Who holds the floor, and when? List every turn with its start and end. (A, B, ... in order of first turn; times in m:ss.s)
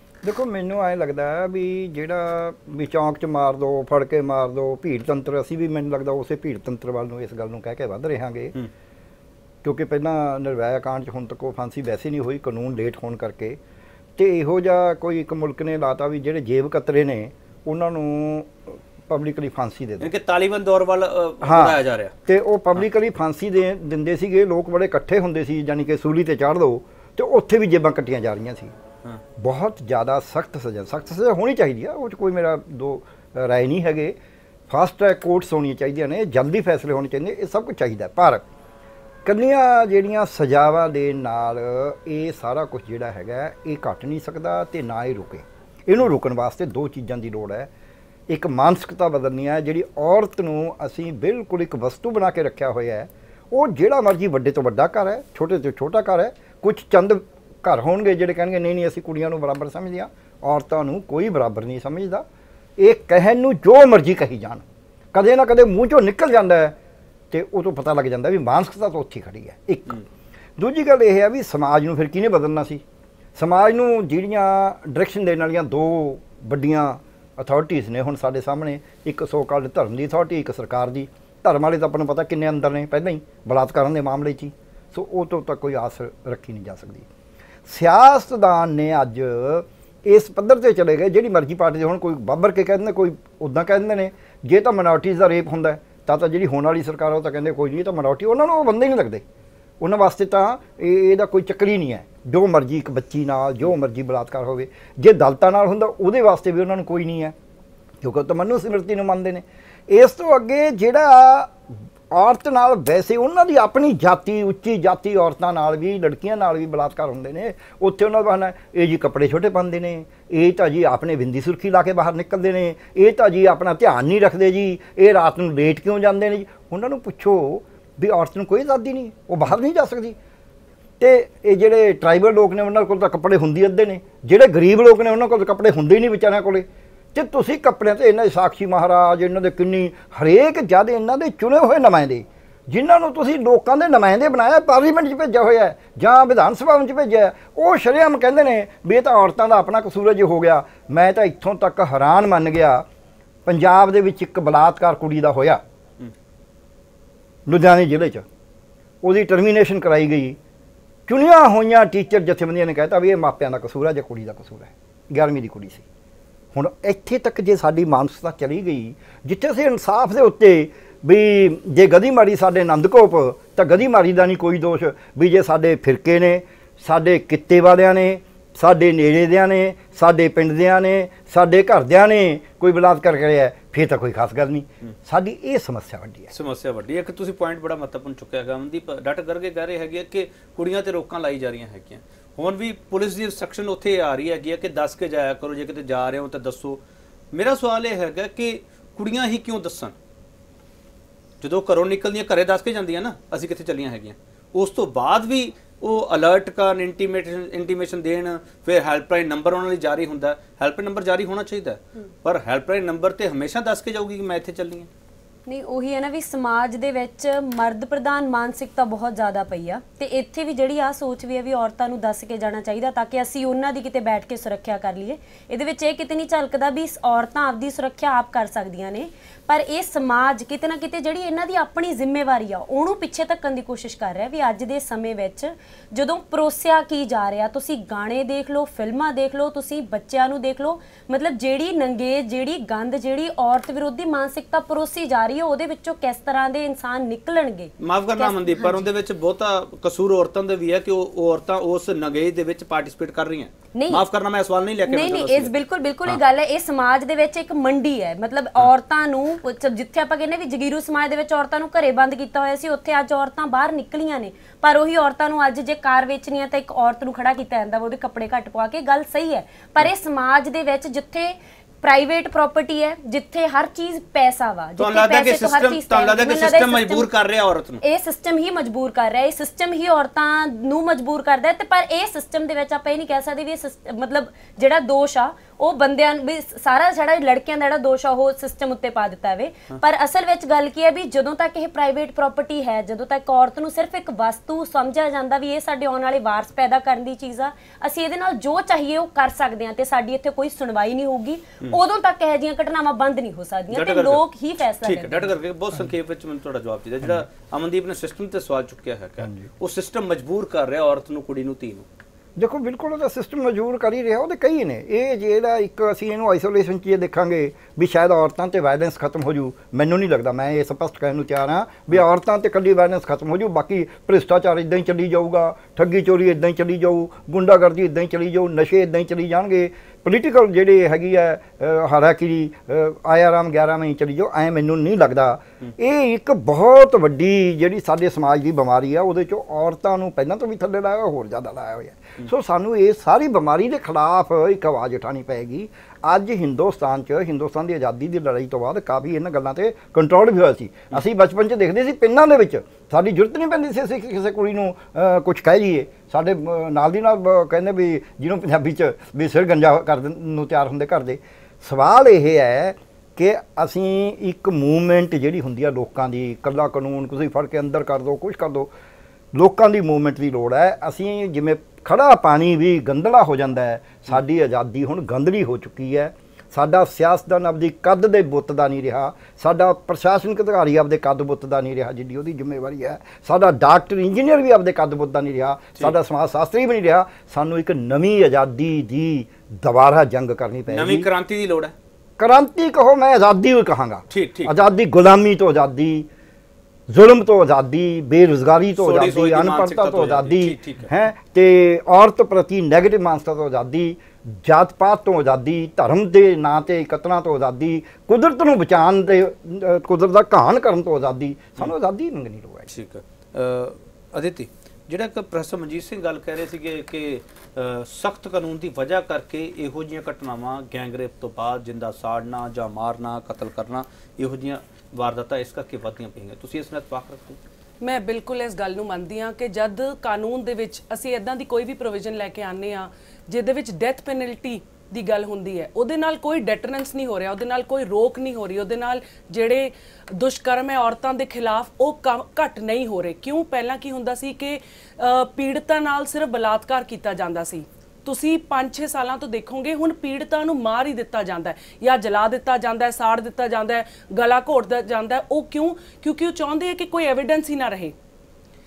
0:00.2-0:08.5 A
0:09.6-0:13.6 A
0:14.2-0:20.1 A
0:20.0-0:22.1 B
0:21.4-0:28.7 A
0:29.4-0:34.2 A
0:34.7-0:38.4 A
0:39.2-0:47.7 A
0:48.3-1:02.2 A
1:02.8-1:06.8 A
1:07.3-1:10.0 A
1:10.6-1:12.8 A
1:13.4-1:27.1 A
1:27.7-1:39.2 A
1:39.8-1:47.3 A
1:48.0-1:51.6 A
1:52.1-2:10.2 A
2:11.0-2:32.8 A
2:33.4-2:35.6 A
2:37.4-2:38.2 A
2:39.0-2:40.4 A
2:41.1-2:45.8 A
2:46.5-3:06.3 A
3:06.3-3:16.8 B
3:17.3-3:19.9 B
3:21.4-3:34.9 B
3:35.4-4:08.8 C
4:07.8-4:15.5 B
4:13.7-4:14.0 C
4:14.9-4:37.1 C
4:34.8-4:37.8 B
4:37.8-5:05.3 C
5:03.7-5:04.2 B
5:04.8-5:11.8 B
5:12.4-6:08.7 A
6:09.3-6:31.1 A
6:30.7-6:31.7 B
6:32.2-6:36.1 A
6:34.1-6:34.6 B
6:36.9-6:52.7 A
6:38.8-6:40.9 B
6:52.7-7:07.4 B
7:07.8-7:37.9 D